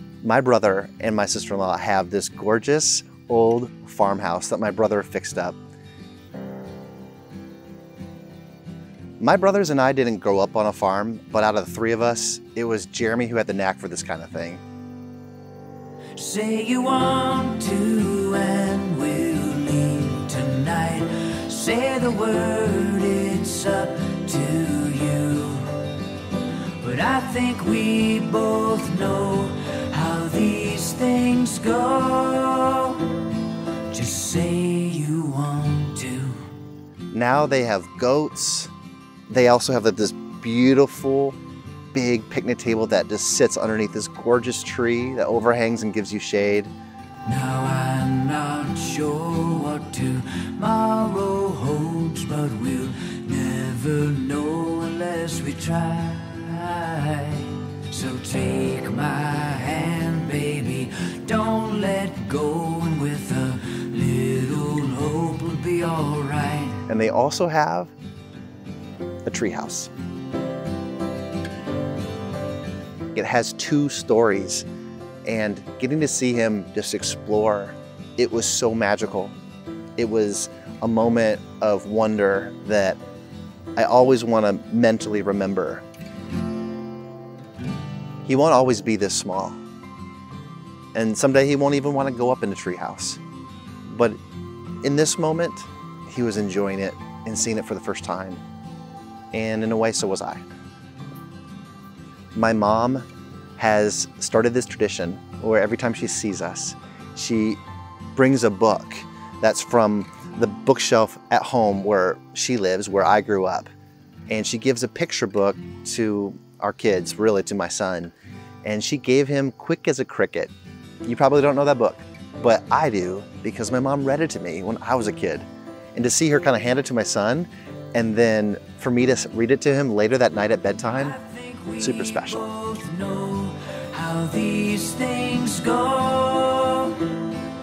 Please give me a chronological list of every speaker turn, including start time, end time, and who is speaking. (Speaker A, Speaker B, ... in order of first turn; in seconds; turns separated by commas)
Speaker A: 0.2-5.6, Speaker A: 9.2-14.6, Speaker B: 16.1-26.0, Speaker B: 26.8-36.5, Speaker A: 37.1-38.7, Speaker A: 39.3-41.4, Speaker A: 41.9-46.7, Speaker B: 47.2-66.8, Speaker A: 66.9-67.9, Speaker A: 69.2-69.9, Speaker A: 73.1-74.7, Speaker A: 75.2-79.3, Speaker A: 80.0-83.0, Speaker A: 83.8-85.8, Speaker A: 88.2-89.6, Speaker A: 90.9-93.2, Speaker A: 93.9-94.2, Speaker A: 94.8-98.4, Speaker A: 99.3-100.4, Speaker A: 102.3-103.0, Speaker A: 103.6-107.6, Speaker A: 108.2-113.7, Speaker A: 114.3-120.5, Speaker A: 121.0-131.2, Speaker B: 130.8-137.3, Speaker A: 131.8-132.5